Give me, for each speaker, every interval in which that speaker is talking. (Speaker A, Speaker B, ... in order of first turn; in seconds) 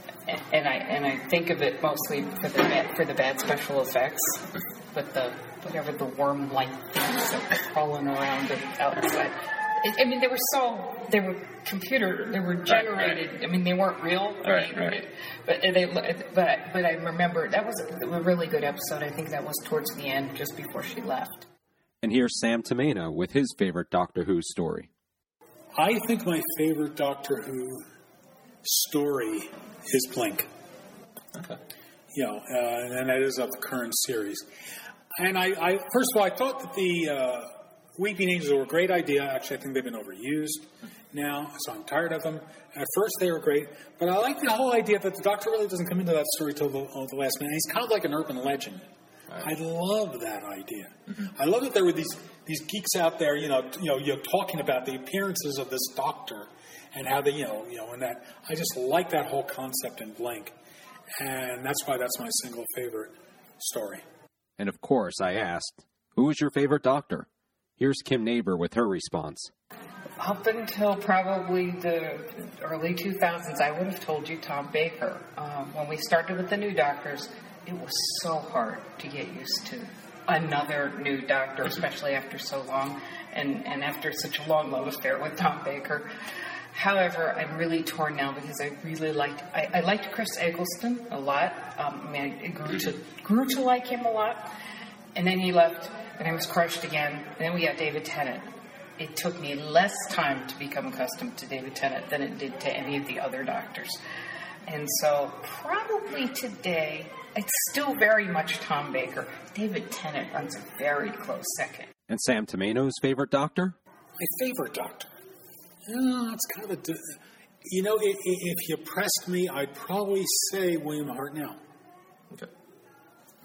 Speaker A: 0.3-21.5, 70.2-86.1, 86.7-94.5, 95.2-104.0, 104.7-111.9
Speaker B: 22.0-24.9, 64.6-67.3, 67.8-69.5, 112.1-113.8
Speaker C: 25.8-27.9, 28.6-30.5, 32.1-34.5, 35.1-60.5, 61.2-64.0, 114.2-115.1, 115.9-121.6